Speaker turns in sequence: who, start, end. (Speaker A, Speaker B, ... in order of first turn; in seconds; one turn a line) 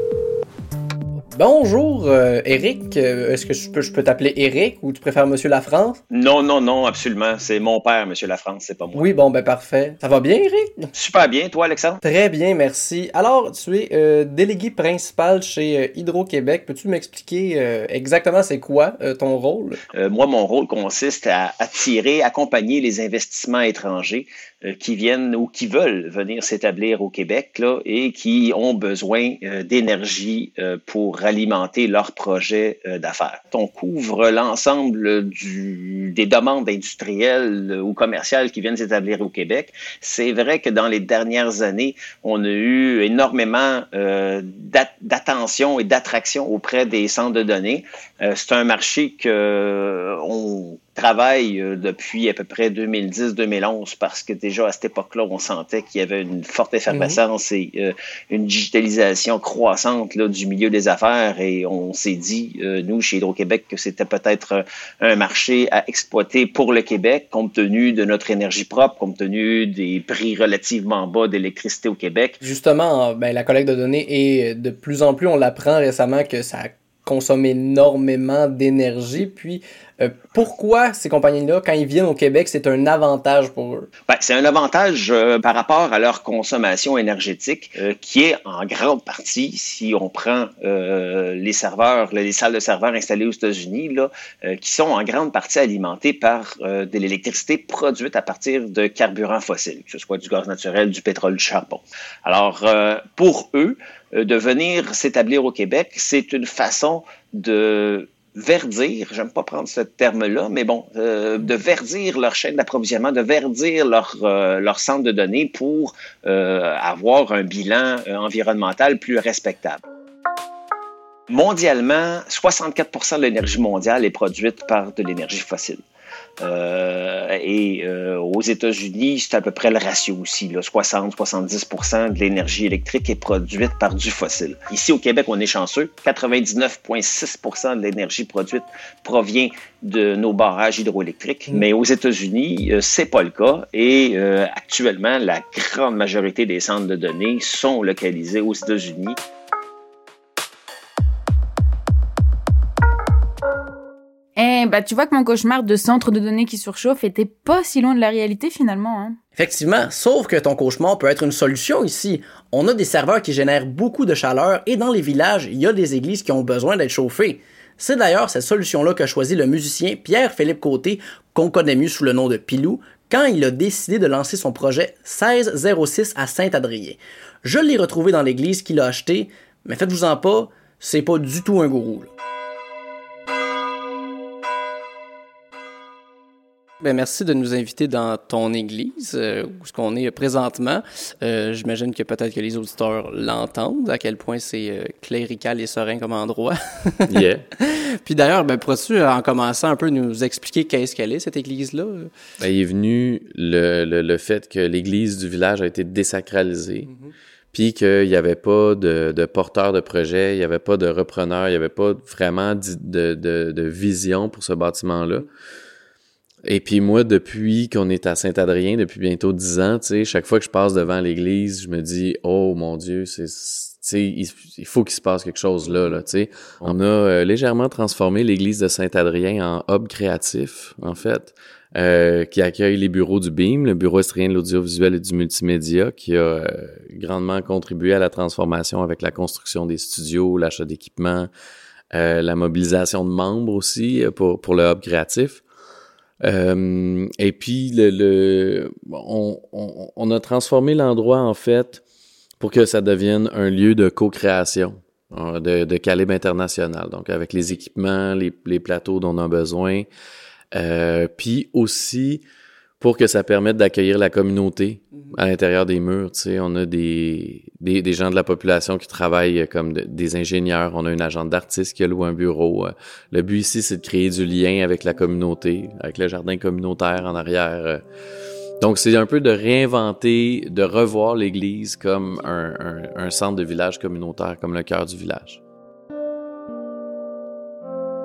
Speaker A: 1.3-6.0
Speaker B: 6.1-9.1
Speaker A: 8.9-10.9
Speaker B: 10.9-12.0
Speaker A: 12.0-19.8
Speaker B: 19.9-72.4
Speaker A: 56.9-57.2
Speaker A: 72.4-83.9
Speaker B: 84.1-119.8
Speaker B: 121.3-125.8
Speaker B: 126.4-149.2
Speaker C: 154.4-159.2
Speaker A: 159.4-182.1
Speaker A: 186.8-202.1
Speaker D: 197.1-197.4
Speaker D: 202.4-206.9
Speaker A: 206.9-207.1
Speaker D: 207.5-215.3
Speaker D: 216.4-241.3
Speaker D: 241.9-245.4
Speaker D: 246.2-251.8
Speaker D: 252.4-259.9
Speaker D: 260.5-262.2
Speaker D: 262.8-277.8
Speaker D: 278.6-285.4